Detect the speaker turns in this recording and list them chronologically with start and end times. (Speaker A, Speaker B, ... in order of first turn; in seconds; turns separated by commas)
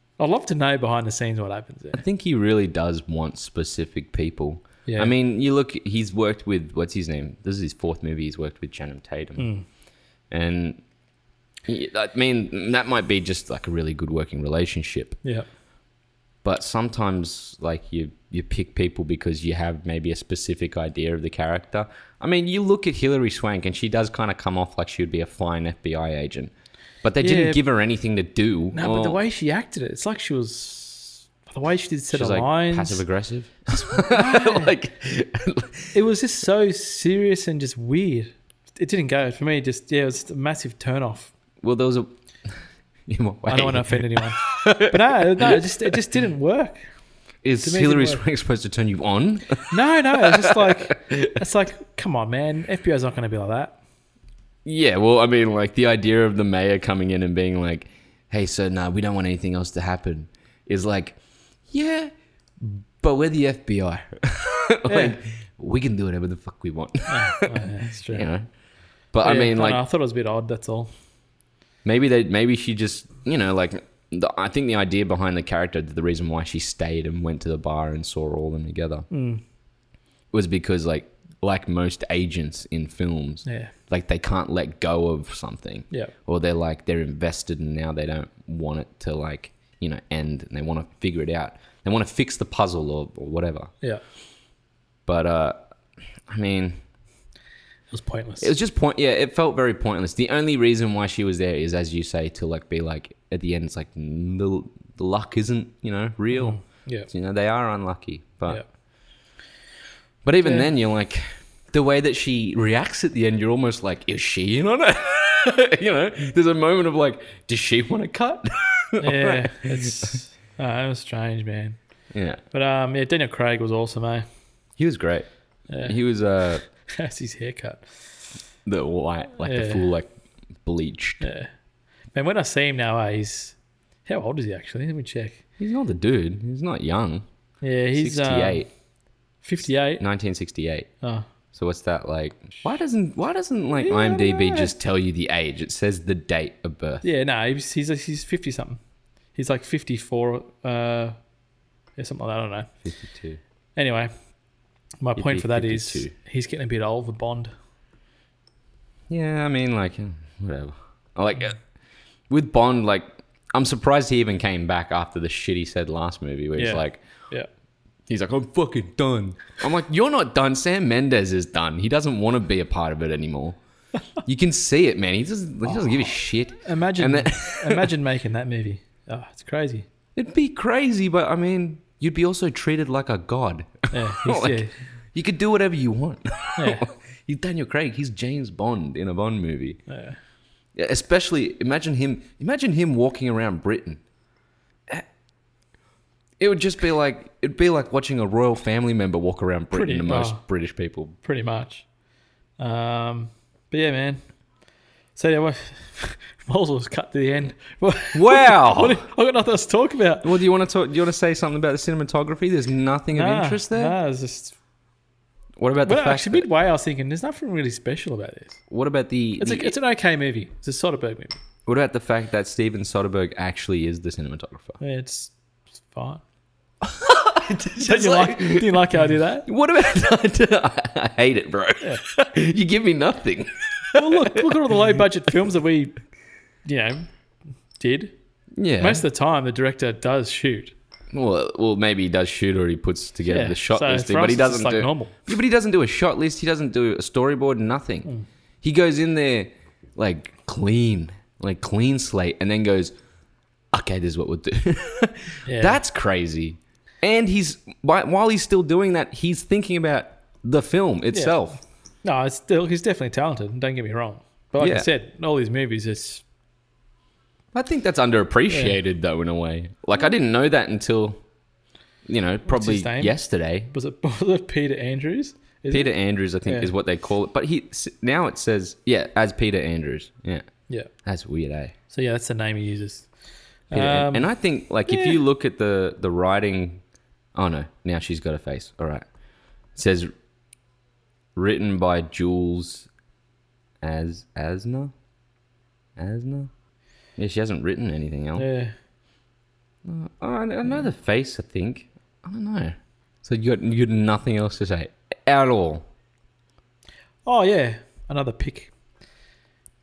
Speaker A: 0.2-2.0, Speaker B: 1.9-9.5, Speaker A: 4.9-5.1, Speaker A: 9.4-9.7, Speaker B: 10.3-10.8, Speaker B: 11.7-15.2, Speaker B: 16.4-26.5, Speaker B: 27.0-29.2, Speaker A: 27.2-27.6, Speaker A: 28.7-33.0, Speaker B: 32.1-36.0, Speaker A: 33.9-34.8, Speaker A: 35.9-41.3, Speaker B: 41.6-42.1, Speaker B: 43.1-45.9, Speaker A: 43.5-46.8, Speaker B: 47.4-51.4, Speaker A: 47.6-48.2, Speaker A: 49.7-53.8, Speaker B: 54.6-61.2, Speaker B: 61.7-68.5, Speaker A: 64.9-65.2, Speaker A: 67.1-68.3, Speaker B: 69.1-69.8, Speaker A: 69.2-70.9, Speaker B: 71.8-79.1, Speaker A: 79.1-79.4, Speaker B: 80.3-93.7, Speaker A: 83.5-83.7, Speaker B: 95.1-95.6, Speaker B: 96.3-96.8, Speaker A: 97.9-98.5, Speaker B: 98.4-106.6, Speaker A: 106.3-107.1, Speaker B: 107.1-108.6, Speaker B: 110.2-120.2, Speaker A: 110.4-110.7, Speaker A: 119.0-121.8, Speaker B: 122.1-122.4, Speaker A: 122.5-124.3, Speaker B: 124.8-125.3, Speaker A: 125.7-126.0, Speaker B: 125.8-126.6, Speaker A: 126.9-127.9, Speaker B: 128.7-130.1, Speaker A: 129.4-129.9, Speaker B: 130.6-131.2, Speaker A: 131.2-131.5, Speaker A: 132.1-135.4, Speaker B: 135.6-137.3, Speaker A: 137.6-138.7, Speaker B: 138.0-138.7, Speaker A: 139.4-140.0, Speaker B: 140.0-140.9, Speaker B: 141.5-147.1, Speaker A: 143.8-144.7, Speaker A: 147.0-148.8, Speaker A: 149.3-151.2, Speaker A: 152.0-152.7, Speaker B: 152.8-153.4, Speaker A: 153.8-154.1, Speaker A: 155.0-157.5, Speaker B: 155.2-156.1, Speaker B: 159.1-161.6, Speaker B: 162.3-167.0, Speaker A: 166.6-167.5, Speaker B: 168.1-173.6, Speaker B: 174.2-177.9, Speaker A: 175.7-179.9, Speaker B: 180.2-189.8, Speaker A: 183.9-184.7, Speaker A: 186.6-186.9, Speaker A: 189.9-190.2, Speaker B: 190.8-194.0, Speaker B: 196.4-201.2, Speaker A: 199.7-200.4, Speaker A: 201.2-201.9, Speaker A: 202.6-204.2, Speaker A: 205.2-210.3, Speaker B: 208.1-209.0, Speaker B: 210.2-213.9, Speaker A: 213.1-214.6, Speaker B: 215.6-216.5, Speaker A: 215.8-218.6, Speaker B: 218.7-219.8, Speaker A: 219.4-221.4, Speaker B: 221.7-224.8, Speaker A: 224.8-226.2, Speaker B: 226.8-228.8, Speaker A: 227.8-229.5, Speaker B: 229.5-234.7, Speaker A: 233.9-236.0, Speaker A: 236.7-237.1, Speaker A: 237.8-238.2, Speaker B: 238.6-239.0, Speaker A: 238.8-240.7, Speaker B: 241.1-248.1, Speaker A: 243.3-245.2, Speaker B: 248.6-252.9, Speaker B: 253.7-261.6, Speaker A: 255.5-255.8, Speaker A: 261.1-261.4, Speaker A: 262.0-266.2, Speaker B: 264.6-264.9, Speaker B: 267.5-271.2, Speaker A: 268.5-268.8, Speaker B: 272.1-273.7, Speaker A: 272.5-273.2, Speaker A: 273.7-275.9, Speaker B: 275.7-280.5, Speaker A: 276.4-276.7, Speaker B: 281.0-281.8, Speaker A: 281.9-283.1, Speaker A: 283.7-284.3, Speaker B: 283.7-286.8, Speaker A: 284.9-285.2, Speaker B: 287.4-289.0, Speaker B: 289.8-290.1, Speaker B: 291.4-292.9, Speaker B: 293.8-294.9, Speaker B: 296.0-296.5, Speaker B: 297.2-298.5, Speaker A: 298.4-298.7, Speaker B: 299.8-305.9, Speaker A: 307.2-308.7